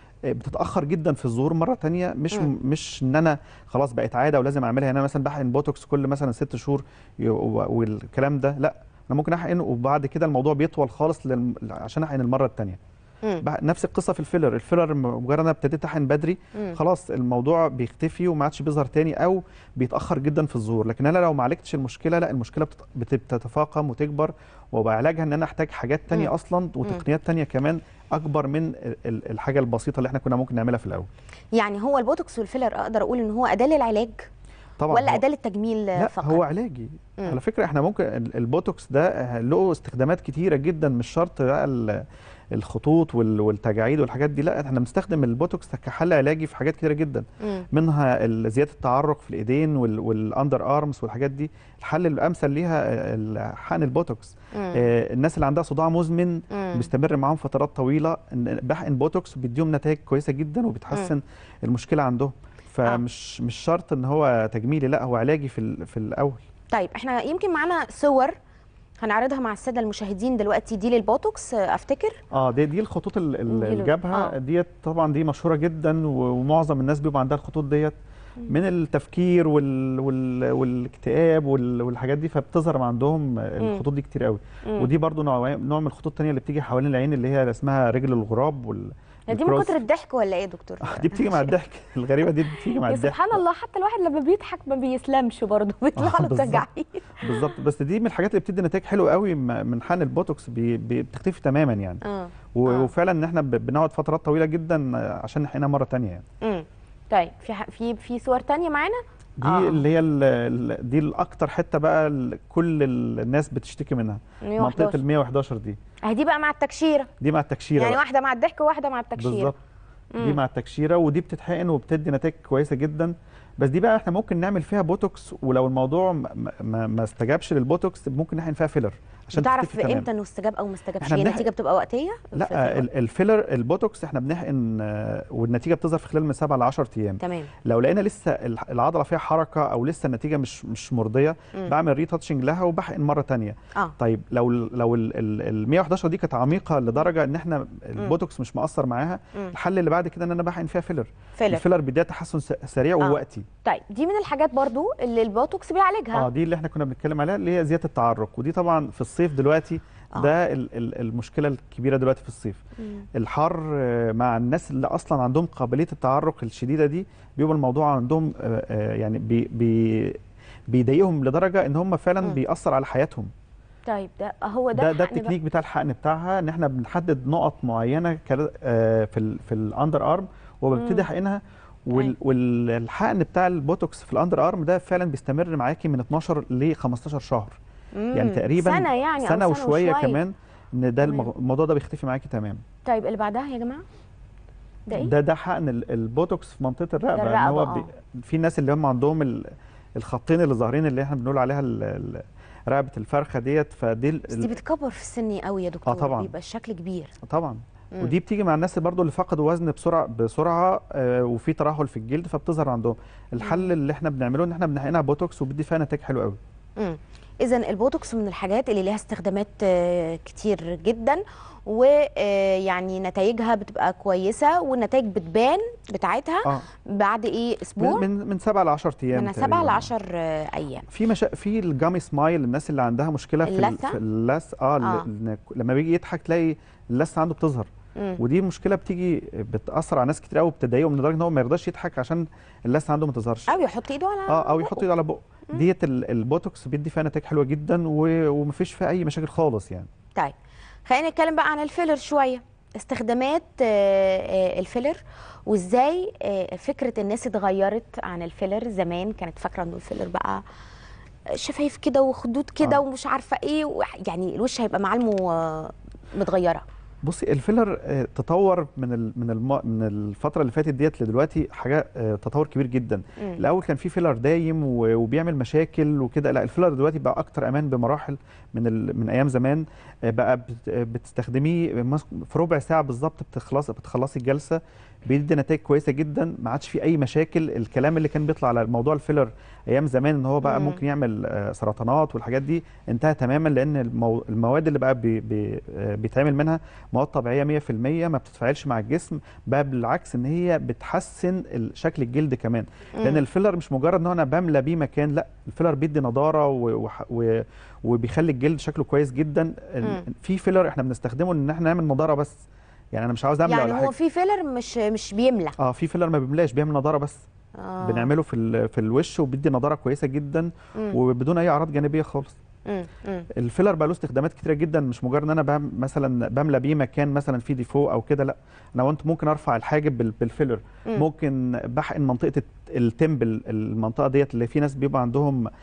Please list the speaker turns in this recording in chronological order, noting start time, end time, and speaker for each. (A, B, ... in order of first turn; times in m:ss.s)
0:00.3-0:12.8 A
0:13.4-0:31.1 A
0:31.5-0:34.3 B
0:34.8-0:35.2 A
0:34.9-0:36.4 B
0:36.0-0:42.0 A
0:42.5-1:06.4 A
0:47.4-0:47.7 B
0:54.5-0:54.8 B
0:56.5-0:56.9 B
1:06.7-1:08.3 B
1:09.0-1:12.2 B
1:12.3-1:18.0 A
1:13.5-1:14.3 B
1:18.5-1:29.8 A
1:29.3-1:31.5 B
1:30.8-1:33.4 A
1:32.6-1:37.5 B
1:36.0-1:36.7 A
1:37.2-1:42.0 A
1:42.0-1:42.9 B
1:42.6-1:46.2 A
1:46.4-1:49.8 B
1:49.4-1:55.8 A
1:54.4-1:55.0 B
1:56.0-1:57.1 B
1:57.2-1:58.0 A
1:57.8-1:59.5 B
1:59.2-1:59.6 A
2:00.2-2:10.1 A
2:09.3-2:12.9 B
2:11.0-2:11.5 A
2:12.4-2:33.4 A
2:17.2-2:17.5 B
2:31.4-2:31.6 B
2:33.0-2:36.2 B
2:36.1-2:42.6 A
2:42.8-2:43.0 B
2:43.1-2:50.2 A
2:50.7-2:53.3 A
2:53.9-2:55.3 B
2:54.7-3:07.6 A
3:00.7-3:01.1 B
3:08.0-3:10.2 B
3:08.1-3:12.6 A
3:11.0-3:11.3 B
3:12.8-3:13.8 B
3:14.9-3:15.1 B
3:14.9-3:24.5 A
3:17.1-3:17.9 B
3:24.3-3:27.1 B
3:25.8-3:26.3 A
3:27.2-3:36.4 A
3:33.4-3:33.7 B
3:36.8-3:48.0 B
3:47.8-3:49.9 A
3:49.1-3:50.8 B
3:50.9-4:03.6 A
3:53.4-3:54.0 B
4:03.5-4:04.8 B
4:04.3-4:09.9 A
4:10.9-4:20.4 B
4:21.3-4:26.6 B
4:27.0-5:12.3 A
4:50.4-4:50.8 B
5:12.9-5:13.9 A
5:13.4-5:15.5 B
5:15.6-5:17.2 A
5:17.6-5:18.1 B
5:17.8-5:22.4 A
5:22.7-5:23.3 B
5:23.4-5:35.4 A